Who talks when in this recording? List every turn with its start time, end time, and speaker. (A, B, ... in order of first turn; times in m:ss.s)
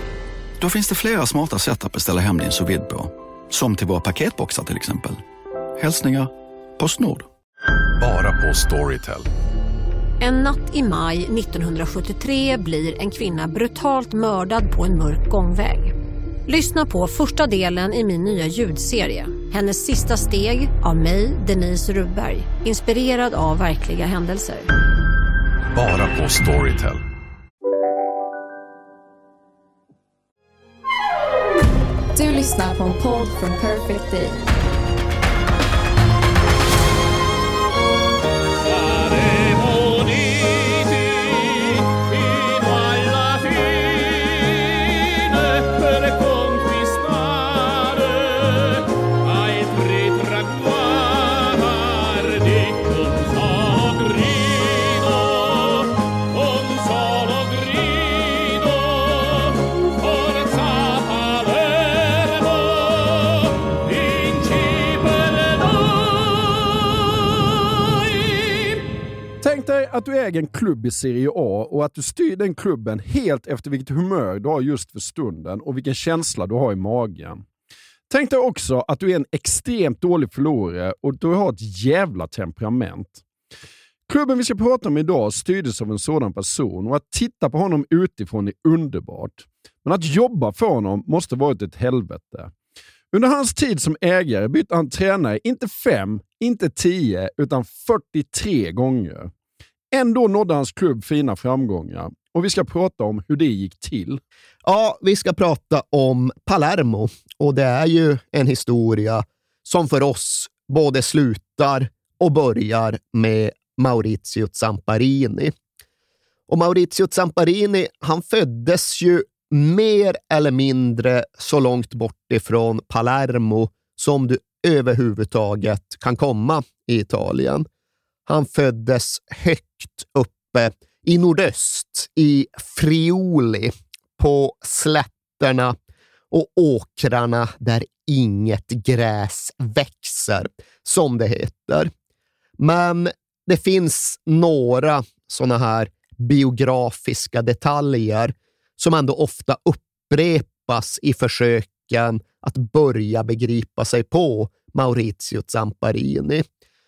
0:00.6-0:05.2 A
0:05.8-0:07.3 A
0:08.0-0:09.3 B
0:10.2-0:15.9 C
0:16.5-0:24.7 C
0:25.8-0:26.9 B
0:32.1-0:34.4 D
1:09.4-1:17.4 E
1:18.1-1:23.2 E
1:24.1-1:32.5 E
1:33.1-1:39.3 E
1:39.9-1:44.2 E
1:44.6-1:55.5 F
1:56.5-2:07.7 F
2:08.3-2:15.8 F
2:16.3-2:21.9 F
2:22.6-2:36.4 F